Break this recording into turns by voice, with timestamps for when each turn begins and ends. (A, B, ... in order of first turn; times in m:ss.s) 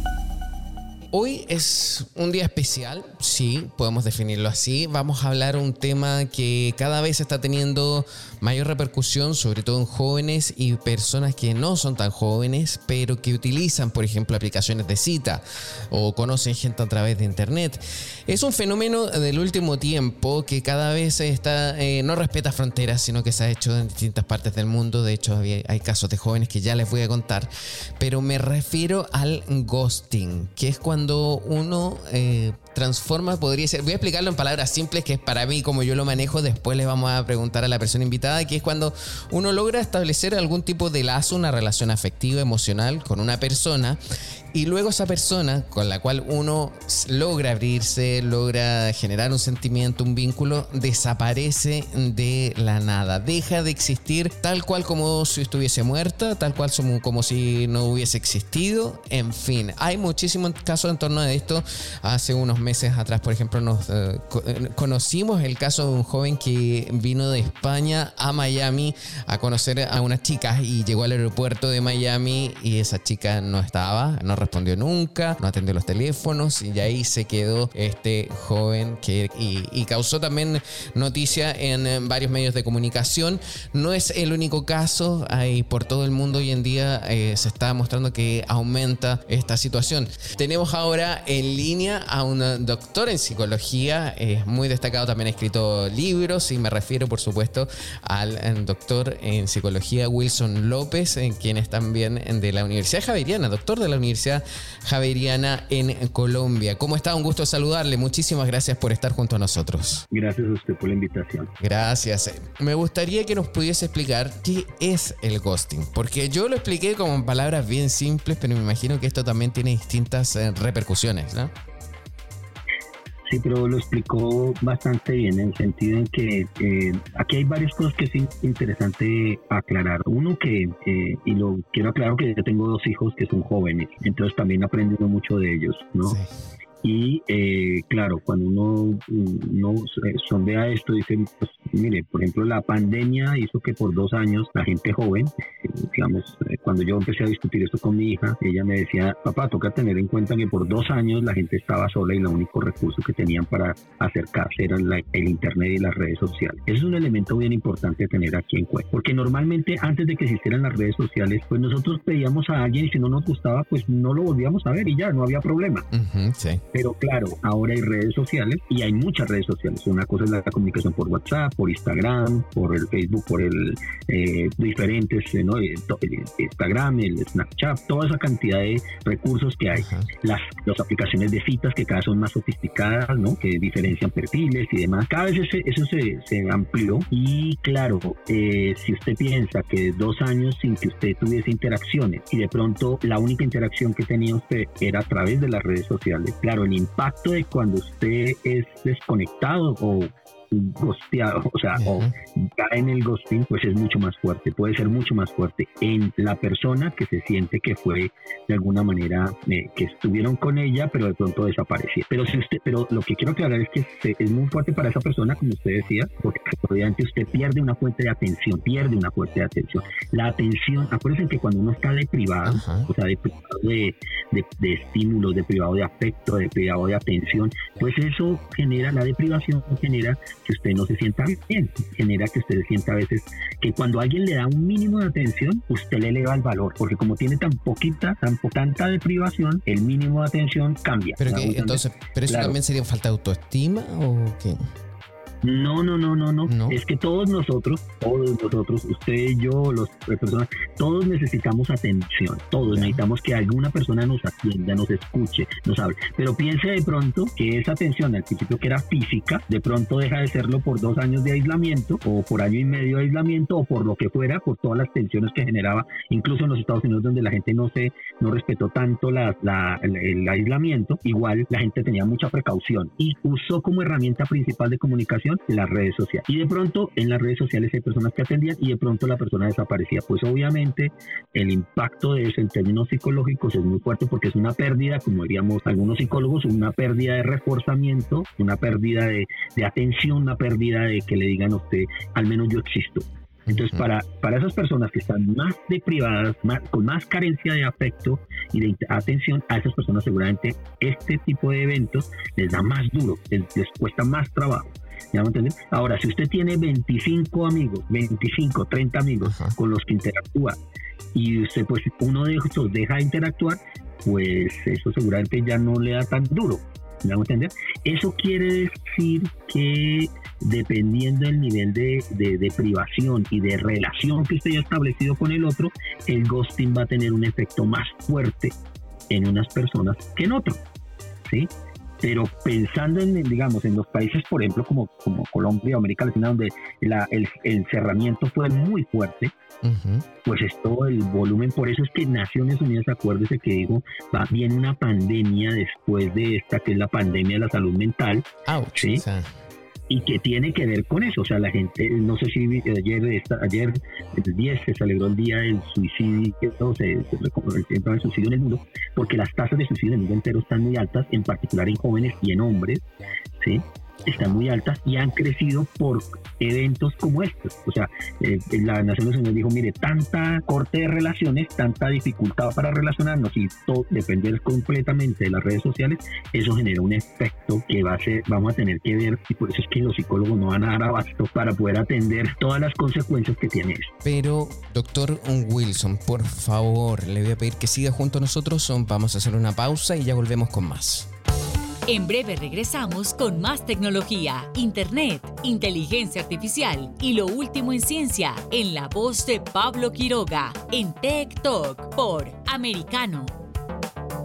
0:01.1-0:44.0 A
0:44.5-1:50.1 A
1:50.1-1:51.5 B
1:51.6-2:01.5 A
2:03.3-2:16.2 B
2:16.1-2:16.3 A
2:16.8-2:45.9 B
2:45.9-2:46.6 A
2:46.7-4:02.6 B
2:59.8-3:00.1 A
3:21.8-3:22.2 A
3:42.4-3:42.9 A
4:01.2-4:04.7 A
4:05.4-5:10.6 B
4:06.5-4:06.8 A
4:12.7-4:13.0 A
4:53.5-4:53.8 A
5:09.2-5:09.6 A
5:11.1-5:28.6 B
5:29.1-5:30.6 B
5:31.2-5:39.3 B
5:39.6-5:40.1 A
5:40.2-5:49.0 B
5:48.5-5:49.3 A
5:49.9-6:02.8 B
6:03.4-6:23.9 B
6:24.0-6:31.1 A
6:31.9-6:43.3 C